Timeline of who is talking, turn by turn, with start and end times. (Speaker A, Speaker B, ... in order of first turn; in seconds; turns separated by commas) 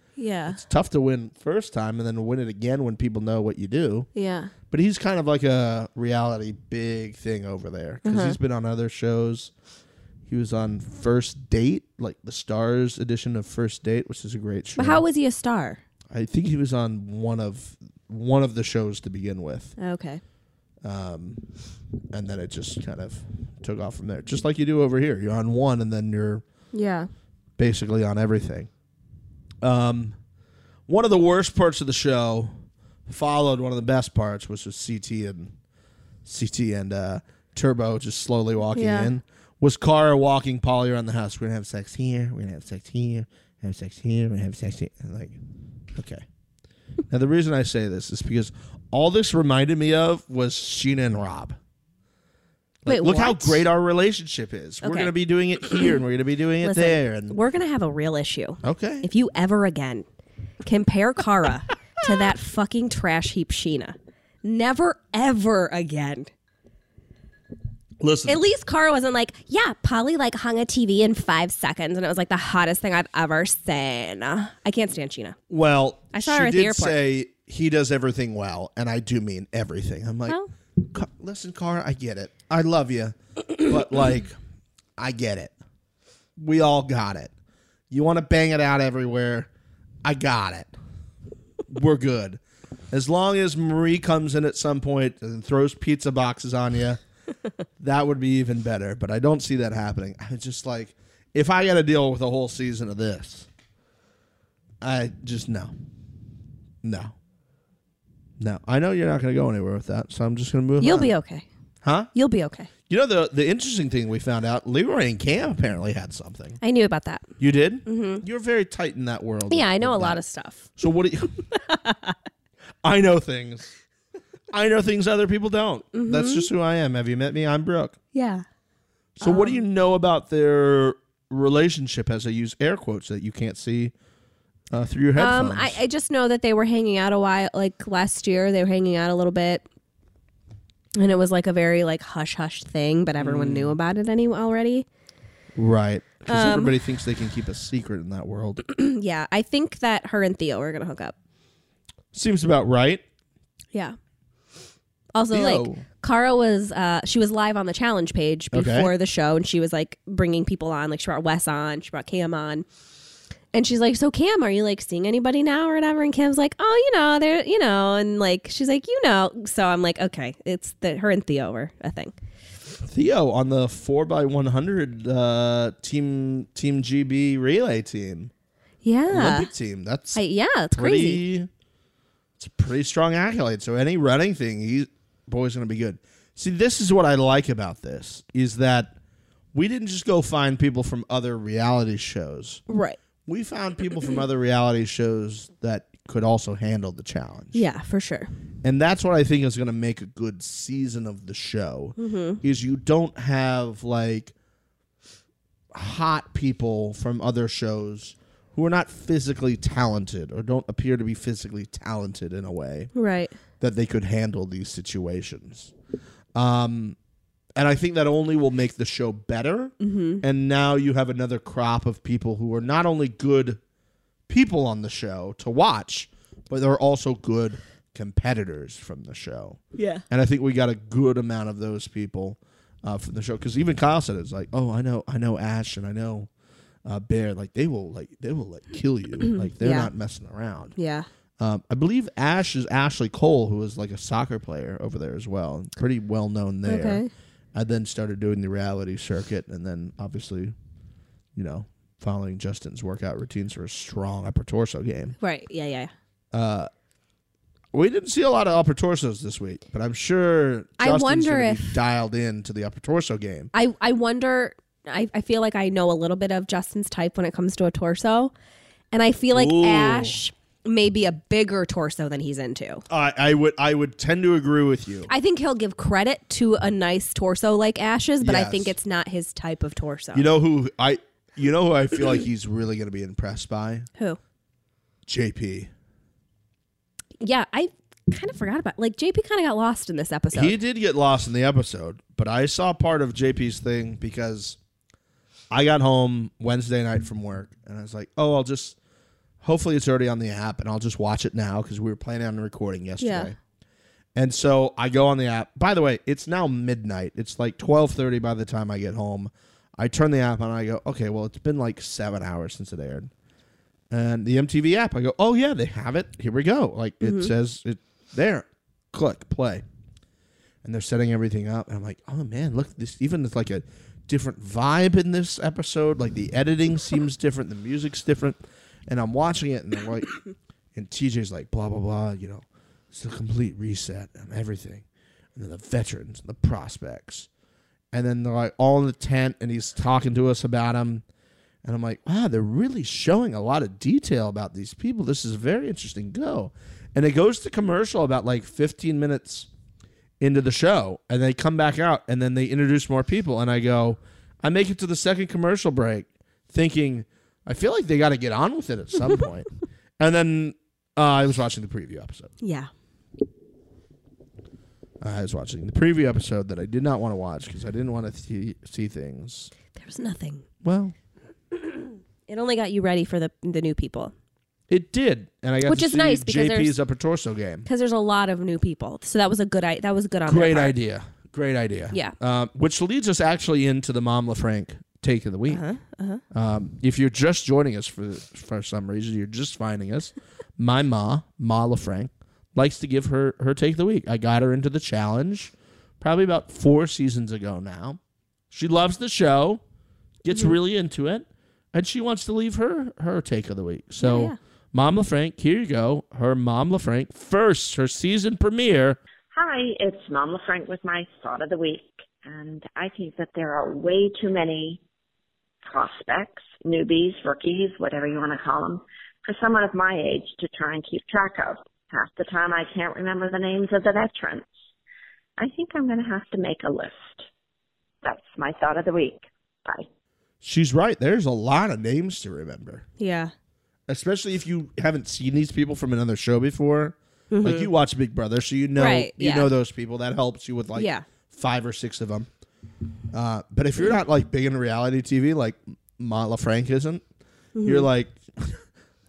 Speaker A: 0.2-0.6, Speaker B: 0.5-4.1, Speaker A: 4.2-4.5, Speaker B: 4.7-9.5, Speaker A: 8.0-8.4, Speaker B: 10.3-15.0, Speaker A: 14.8-15.8, Speaker B: 16.1-19.8, Speaker A: 19.8-20.2, Speaker B: 20.8-21.4, Speaker B: 22.1-26.4, Speaker A: 26.7-27.1, Speaker B: 27.6-28.7, Speaker B: 29.6-30.2, Speaker B: 30.9-32.6, Speaker B: 33.1-35.5, Speaker B: 36.2-45.4, Speaker A: 38.7-39.1, Speaker B: 45.9-46.2, Speaker B: 47.1-51.6, Speaker B: 52.8-57.4, Speaker A: 52.9-53.6, Speaker A: 54.8-55.1, Speaker A: 56.6-60.0, Speaker B: 58.6-59.1, Speaker A: 60.6-66.3, Speaker B: 68.0-68.4, Speaker A: 68.3-75.4, Speaker B: 75.5-84.4, Speaker A: 76.1-77.0, Speaker B: 85.0-85.5, Speaker B: 86.4-87.3, Speaker B: 87.9-89.5, Speaker B: 90.0-90.7, Speaker B: 91.7-92.4, Speaker B: 92.9-97.0, Speaker B: 97.8-103.5, Speaker B: 104.8-105.7, Speaker B: 106.8-107.2, Speaker B: 108.4-111.1, Speaker A: 110.8-111.5, Speaker B: 111.8-112.1, Speaker A: 112.1-112.7, Speaker B: 112.9-116.6, Speaker A: 116.6-117.3, Speaker B: 117.4-120.2, Speaker A: 117.9-118.2, Speaker A: 119.5-120.7, Speaker B: 120.8-121.4, Speaker A: 121.5-122.1, Speaker B: 122.8-123.7, Speaker B: 124.5-128.0, Speaker A: 125.9-126.5, Speaker A: 128.1-128.4, Speaker B: 129.2-133.9, Speaker A: 129.2-129.6, Speaker B: 134.7-135.8, Speaker A: 135.2-139.6, Speaker A: 141.0-144.9, Speaker B: 143.2-143.8, Speaker B: 145.6-148.6, Speaker A: 146.3-146.8, Speaker A: 148.6-151.2, Speaker B: 152.1-153.0, Speaker A: 155.1-162.7, Speaker B: 155.3-155.8, Speaker B: 158.5-158.9, Speaker A: 163.5-172.1, Speaker B: 172.9-178.3, Speaker A: 178.8-179.5, Speaker B: 179.1-180.2, Speaker A: 180.2-181.2, Speaker B: 180.7-181.5, Speaker B: 182.4-189.0, Speaker B: 189.5-192.6, Speaker A: 192.7-193.0, Speaker B: 193.3-197.6, Speaker A: 197.5-198.3, Speaker B: 198.6-204.3, Speaker A: 202.0-202.4, Speaker B: 205.7-212.9, Speaker A: 212.9-213.3, Speaker B: 213.6-215.7, Speaker B: 216.3-217.0, Speaker B: 217.6-223.6, Speaker A: 219.8-220.2, Speaker B: 224.3-236.3, Speaker A: 229.8-230.0, Speaker B: 236.8-240.8, Speaker A: 239.2-239.9, Speaker A: 240.8-241.1, Speaker B: 241.4-250.6, Speaker A: 246.7-247.1, Speaker B: 251.3-255.2, Speaker A: 255.2-255.9, Speaker B: 256.3-256.7, Speaker B: 257.7-263.5, Speaker A: 260.8-261.7, Speaker A: 263.5-268.3, Speaker A: 268.9-272.9, Speaker B: 269.3-270.2, Speaker B: 272.9-275.1, Speaker A: 275.1-280.3, Speaker B: 278.2-278.8, Speaker B: 280.1-283.9, Speaker B: 285.1-285.7, Speaker A: 287.2-290.6, Speaker B: 290.3-294.6, Speaker B: 295.5-298.8, Speaker B: 299.4-303.4, Speaker A: 303.0-303.3, Speaker B: 304.1-313.1, Speaker B: 313.9-319.6, Speaker A: 317.0-317.3, Speaker B: 320.6-330.1, Speaker B: 330.7-337.3, Speaker B: 337.9-341.0, Speaker B: 341.6-349.5, Speaker B: 350.2-362.3, Speaker A: 362.4-362.7, Speaker B: 365.0-369.5, Speaker A: 369.8-370.4, Speaker B: 370.6-370.9, Speaker A: 371.8-374.1, Speaker B: 374.7-377.7, Speaker A: 375.7-376.8, Speaker A: 377.7-380.8, Speaker B: 380.3-385.6, Speaker A: 385.5-386.2, Speaker B: 386.3-398.0, Speaker B: 398.5-399.6, Speaker B: 400.2-409.0, Speaker A: 404.0-404.4, Speaker C: 409.3-414.8, Speaker C: 415.6-424.5, Speaker C: 425.4-427.2, Speaker C: 428.0-429.9, Speaker B: 430.4-432.8, Speaker A: 433.0-433.3, Speaker B: 433.9-442.3, Speaker A: 437.3-437.7, Speaker A: 438.8-439.5, Speaker A: 440.8-441.0, Speaker B: 443.1-447.0, Speaker A: 447.6-447.9, Speaker B: 447.6-448.6